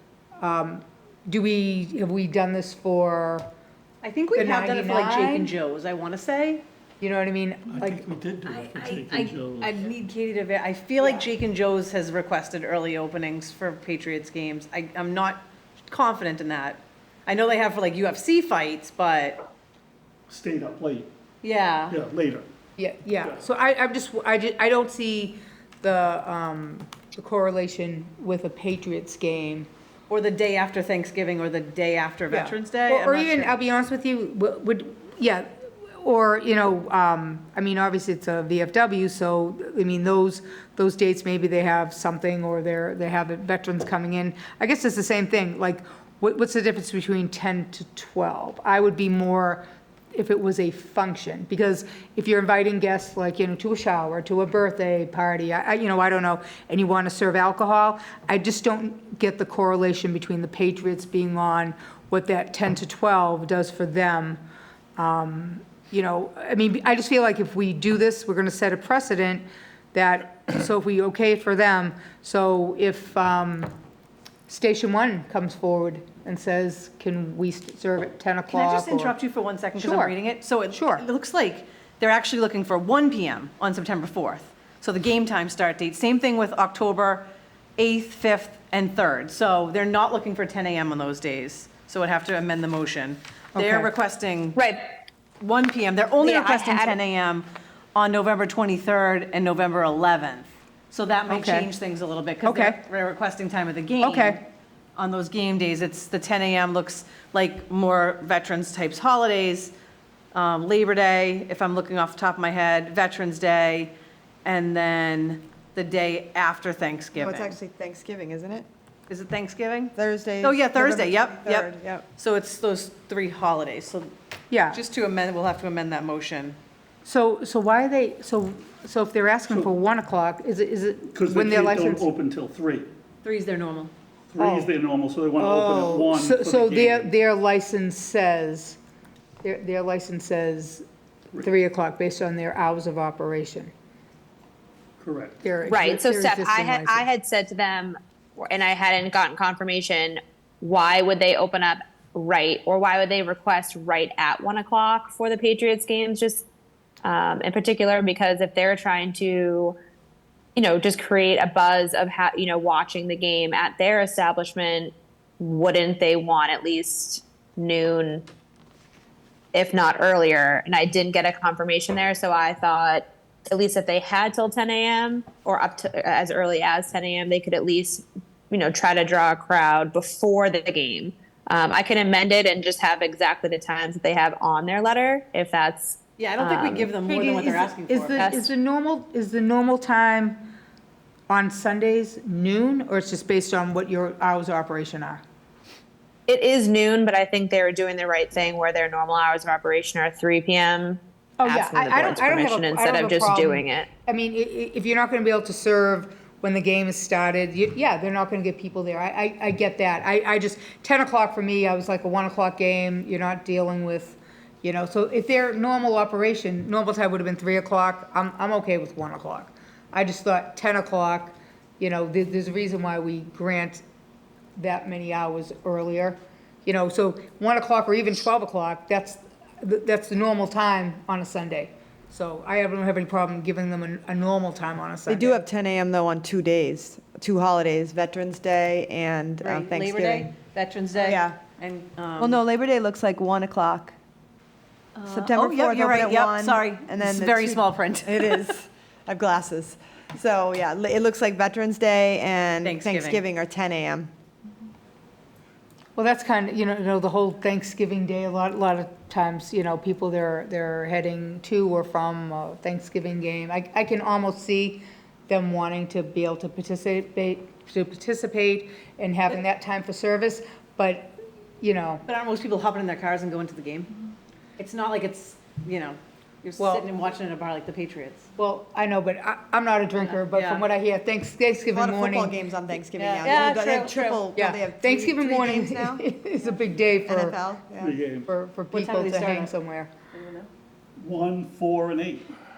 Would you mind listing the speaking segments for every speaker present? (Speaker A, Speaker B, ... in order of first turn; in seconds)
Speaker A: 0.4-3.5, 4.3-5.5, 7.0-8.0, 22.8-29.7, 32.3-64.4, 65.0-73.7, 74.5-79.1, 79.8-80.1, 80.7-81.0, 93.5-93.9, 101.3-101.7, 102.4-102.8, 104.0-104.4, 124.5-124.8, 127.0-132.1, 134.4-134.7, 135.4-138.8, 139.4-140.8, 141.4-143.7, 145.4-147.1, 187.1-190.5, 191.3-195.2, 201.4-223.8, 224.6-235.4, 255.9-272.0, 276.6-276.9, 278.4-282.4, 284.3-287.4, 288.3-289.9
Speaker B: 4.0-6.6, 8.4-19.4, 21.4-22.0, 30.1-33.5, 78.5-87.2, 87.8-94.6, 95.4-104.4, 105.0-109.7, 110.3-113.9, 114.4-117.6, 119.1-124.1, 124.7-126.6, 133.2-133.9, 186.2-188.3, 239.4-242.4, 245.0-248.6, 252.6-253.2, 272.0-273.9, 274.6-278.3, 280.1-280.6, 282.9-284.2, 288.7-289.5, 290.1-290.5
Speaker C: 7.7-9.8, 20.3-21.1, 21.9-22.5, 131.1-132.9, 134.3-137.1, 145.0-145.4, 287.8-288.3, 291.0-292.3
Speaker D: 94.6-94.8, 96.2-97.0, 145.7-156.4, 157.0-159.8, 160.5-168.2, 169.5-186.9, 188.2-188.5, 196.3-203.9
Speaker E: 117.1-118.7, 120.0-122.0, 235.1-240.3, 241.0-241.4, 242.2-243.9, 245.0-254.1, 281.7-286.0, 287.0-287.9